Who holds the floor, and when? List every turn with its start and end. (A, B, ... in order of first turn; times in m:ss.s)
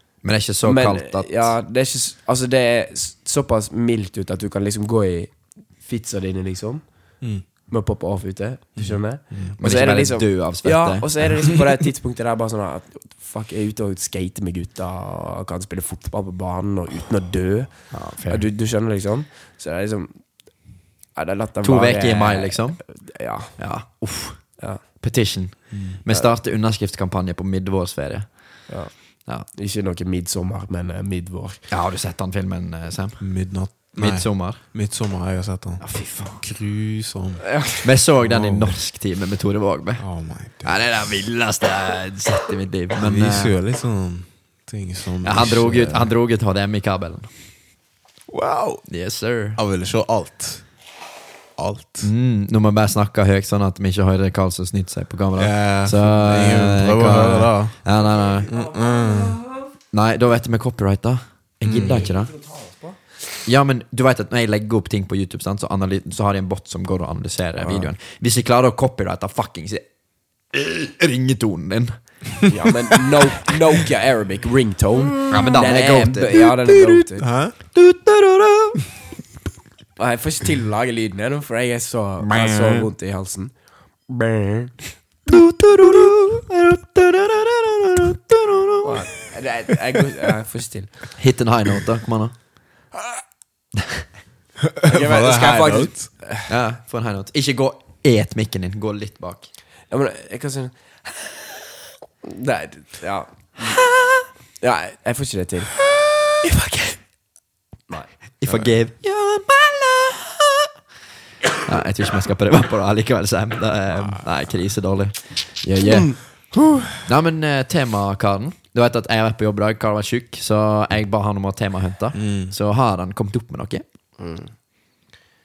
0:00.2-0:01.6 A
0:00.6-0:23.7 B
0:07.2-0:07.4 C
0:08.8-0:09.6 C
0:09.6-0:11.4 A
0:17.9-0:18.5 A
0:21.6-0:28.7 A
0:24.6-0:24.8 B
0:25.7-0:26.0 C
0:28.7-0:31.7 B
0:31.7-0:34.6 A
0:33.2-0:37.5 C
0:35.8-0:36.6 A
0:37.5-0:37.8 B
0:37.8-0:43.5 A
0:38.1-0:38.8 C
0:40.0-0:40.9 C
0:43.0-0:46.1 C
0:45.2-0:47.3 A
0:48.3-0:49.0 C
0:48.9-0:49.6 A
0:49.6-0:50.9 C
0:51.6-0:52.1 C
0:52.0-0:58.5 A
0:55.4-0:57.8 C
0:58.5-0:59.4 C
0:58.5-0:59.6 B
0:59.9-1:02.3 A
1:01.6-1:02.1 C
1:01.8-1:03.0 B
1:03.4-1:12.6 A
1:07.6-1:07.9 B
1:12.5-1:17.3 B
1:15.3-1:18.9 A
1:17.2-1:17.6 C
1:20.0-1:24.9 B
1:22.4-1:22.8 C
1:25.3-1:29.1 A
1:28.8-1:31.2 B
1:31.2-1:32.4 A
1:34.7-1:36.1 C
1:34.9-1:36.5 B
1:36.4-1:39.5 A
1:39.9-1:41.7 B
1:42.2-1:44.0 B
1:44.6-1:47.1 B
1:47.9-1:48.2 B
1:48.4-1:50.7 A
1:48.5-1:48.8 C
1:51.6-1:56.4 A
1:54.0-1:54.2 C
1:55.7-1:56.9 B
1:57.0-2:03.8 A
2:02.1-2:02.5 C
2:04.2-2:04.6 B